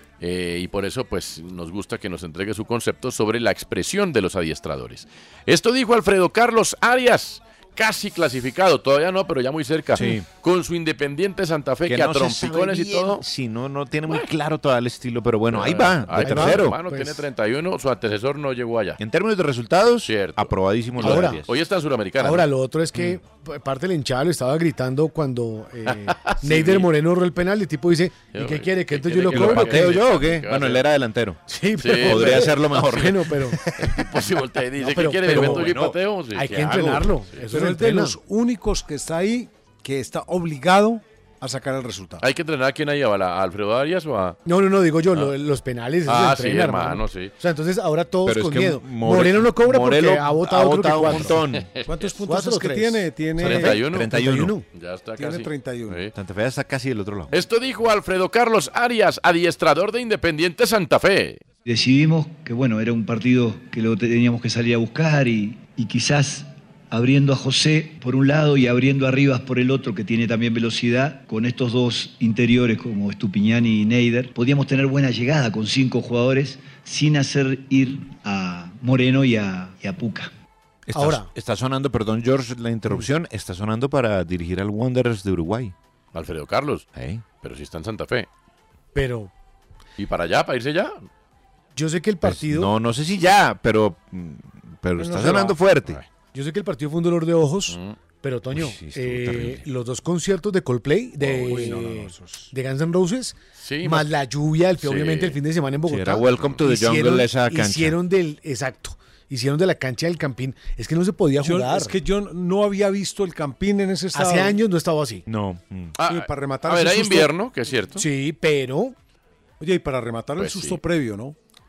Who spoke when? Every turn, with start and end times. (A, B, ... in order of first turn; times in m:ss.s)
0:00.2-0:13.2 A
0:09.9-0:10.3 B
0:11.9-0:16.8 B
0:15.5-0:19.0 A
0:16.2-0:17.2 C
0:19.0-0:21.5 B
0:20.0-0:22.5 A
0:21.0-0:21.4 C
0:22.2-0:30.0 C
0:25.8-0:26.9 A
0:28.3-0:30.8 A
0:29.3-0:31.4 B
0:31.5-0:33.6 C
0:31.8-0:33.2 A
0:32.0-0:33.2 B
0:33.8-0:37.5 A
0:34.8-0:38.2 C
0:35.3-0:36.0 B
0:37.5-0:42.2 D
0:42.2-0:44.4 A
0:44.5-0:51.4 C
0:46.0-0:47.3 A
0:48.2-0:51.7 B
0:51.1-0:52.1 A
0:51.9-0:53.8 D
0:52.2-0:54.6 C
0:53.4-0:54.2 A
0:53.4-0:54.6 B
0:54.7-0:56.1 A
0:55.2-0:56.1 D
0:56.2-0:57.3 B
0:57.3-1:01.4 A
1:01.7-1:20.3 E
1:20.9-1:25.7 B
1:20.9-1:21.3 C
1:26.1-1:26.9 A
1:27.0-1:27.2 B
1:27.4-1:28.3 A
1:29.0-1:29.3 C
1:30.0-1:31.1 A
1:31.8-1:32.7 C
1:32.2-1:36.0 B
1:35.0-1:35.6 D
1:36.3-1:52.0 C
1:37.7-1:38.0 A
1:38.5-1:39.6 B
1:41.4-1:42.5 D
1:43.6-1:44.1 A
1:44.8-1:45.4 A
1:45.9-1:48.0 B
1:51.4-1:54.6 D
1:54.1-1:55.2 C
1:55.3-1:55.9 B
1:56.0-1:58.0 A
1:56.0-1:57.3 D
1:58.0-1:59.0 C
1:59.6-2:01.4 D
2:00.4-2:00.8 A